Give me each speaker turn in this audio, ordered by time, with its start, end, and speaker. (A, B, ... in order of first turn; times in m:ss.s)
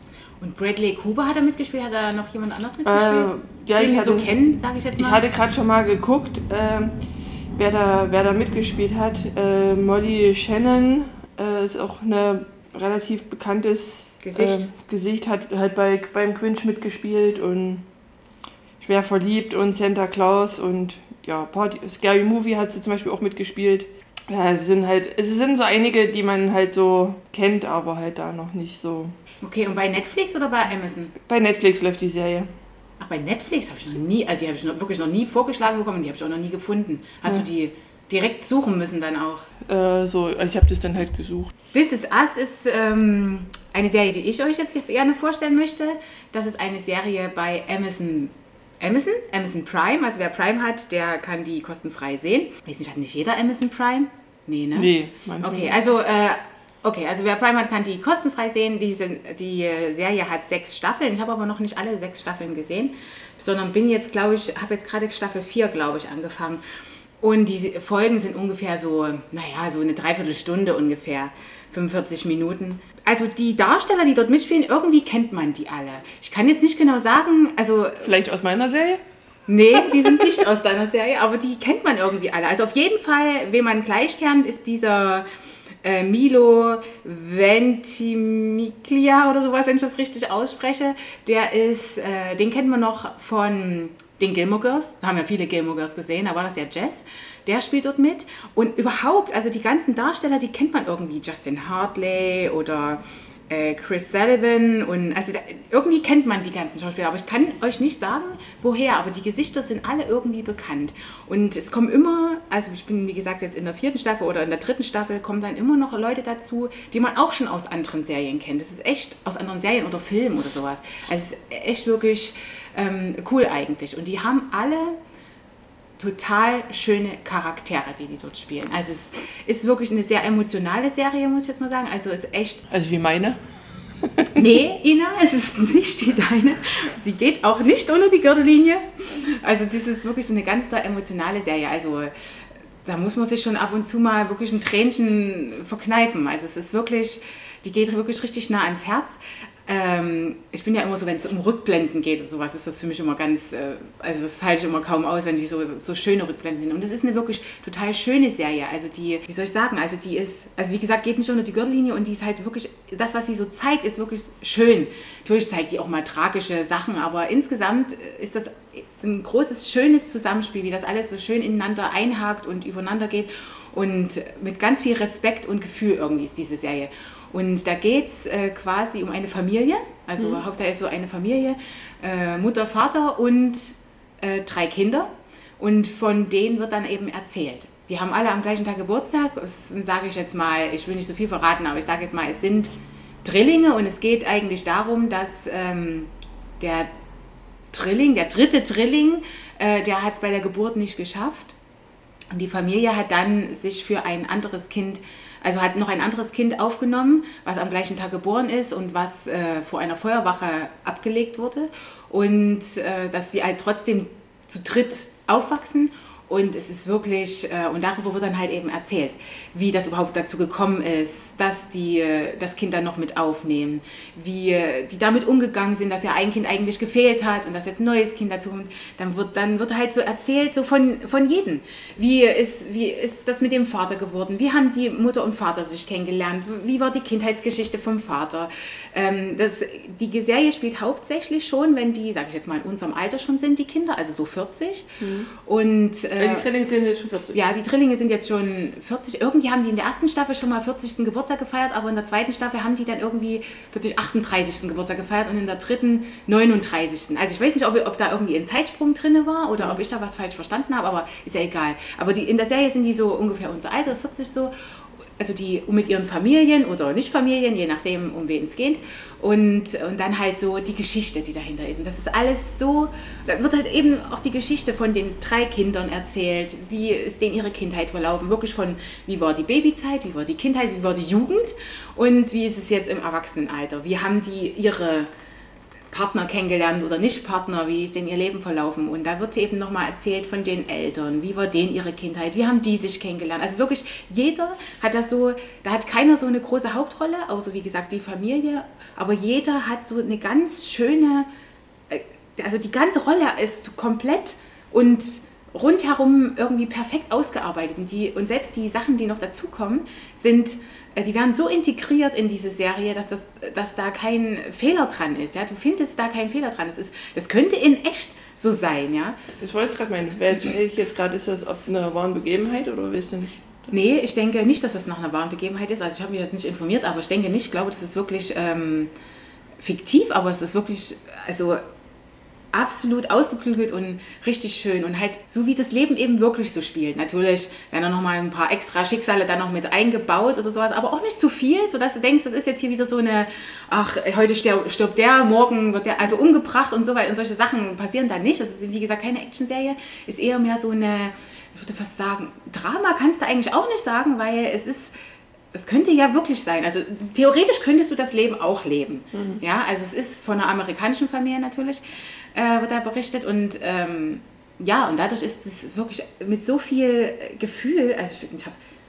0:00.4-0:05.2 A
0:02.8-0:04.3 B
0:05.0-0:07.0 B
0:07.6-0:17.9 B
0:14.2-0:14.6 A
0:18.8-0:29.2 B
0:29.4-0:31.1 A
0:31.2-0:32.5 B
0:33.0-0:39.5 A
0:39.7-0:41.5 B
0:41.7-1:06.6 A
0:54.8-0:55.8 B
1:07.2-1:18.1 A
1:18.0-1:19.0 B
1:19.5-1:25.2 A
1:25.8-2:05.0 A
2:06.0-2:12.7 A
2:12.7-2:13.4 B
2:14.0-2:14.4 B
2:14.4-3:12.7 A
3:13.2-3:16.9 A
3:17.7-3:21.6 A
3:22.3-4:06.5 A
4:05.0-4:05.3 B
4:06.2-4:07.4 B
4:07.3-4:24.5 A
4:25.2-4:45.1 A
4:45.9-5:01.3 A
5:01.9-5:19.2 A
5:19.4-5:23.7 B
5:23.7-5:28.9 A
5:29.6-5:31.6 A
5:32.5-5:55.0 A
5:55.5-6:08.6 A
5:59.1-5:59.4 B